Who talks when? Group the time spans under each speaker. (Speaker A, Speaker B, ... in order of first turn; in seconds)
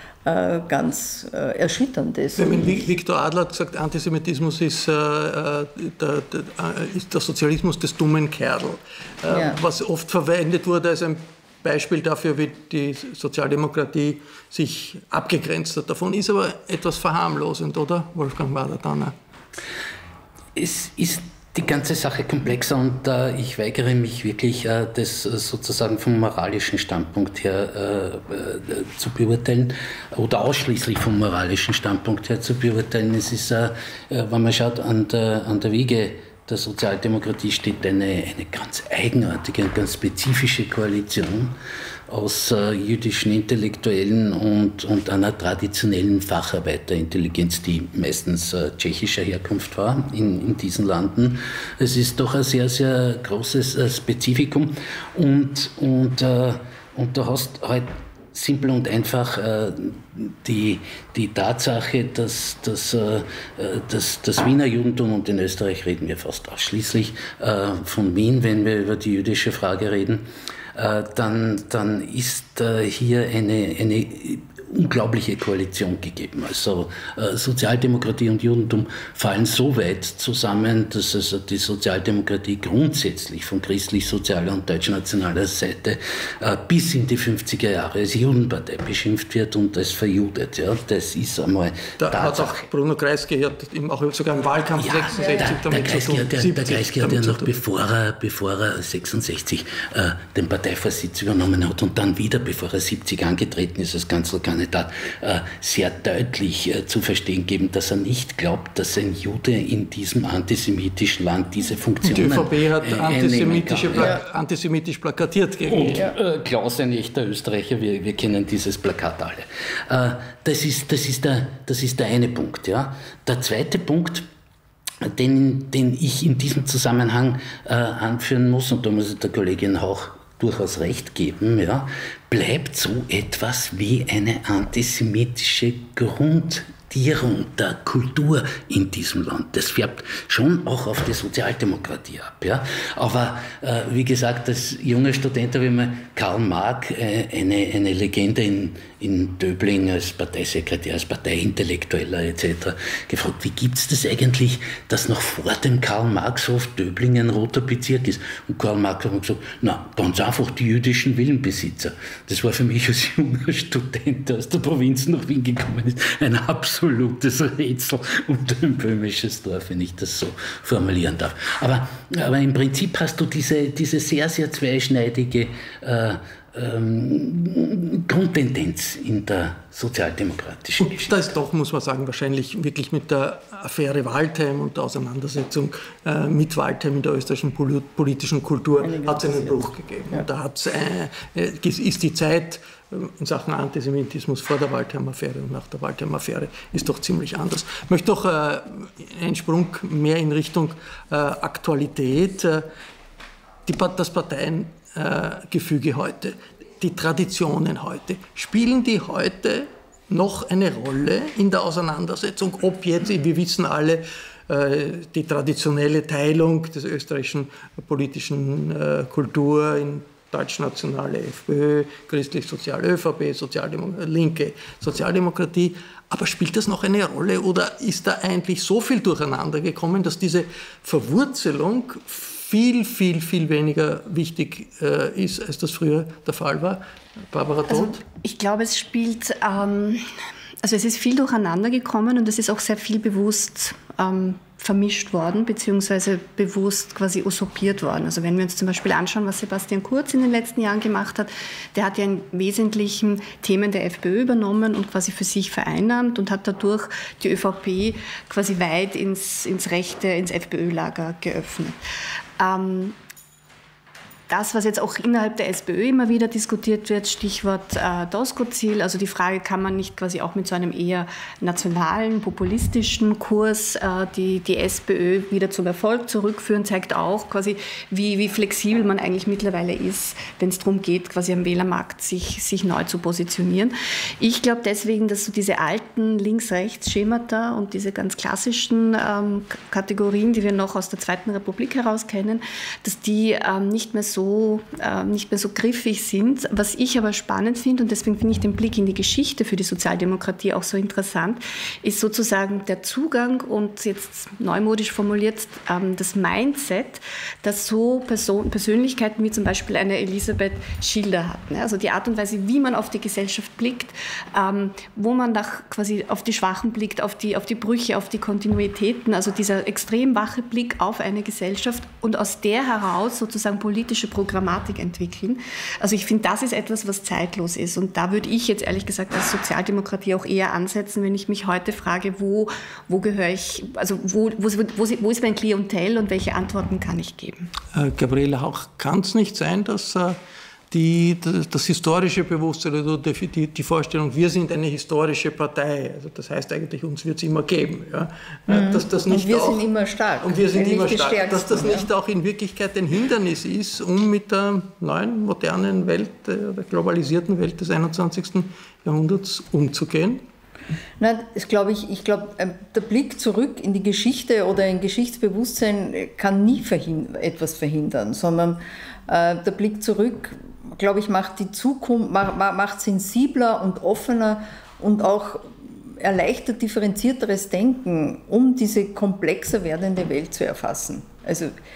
Speaker A: 0.2-2.8, 9.3-9.6, 95.1-95.5, 188.8-190.3, 348.5-351.9, 361.0-381.5
Speaker B: 2.4-19.1, 92.0-97.5, 112.0-116.0, 180.8-202.7, 203.7-238.0, 337.7-340.2, 340.7-349.6, 350.2-360.2
Speaker C: 20.5-41.6, 42.1-92.7, 94.8-114.2, 115.7-124.2, 125.0-181.1
Speaker D: 237.7-240.1, 240.6-261.8, 262.4-262.9, 264.3-337.5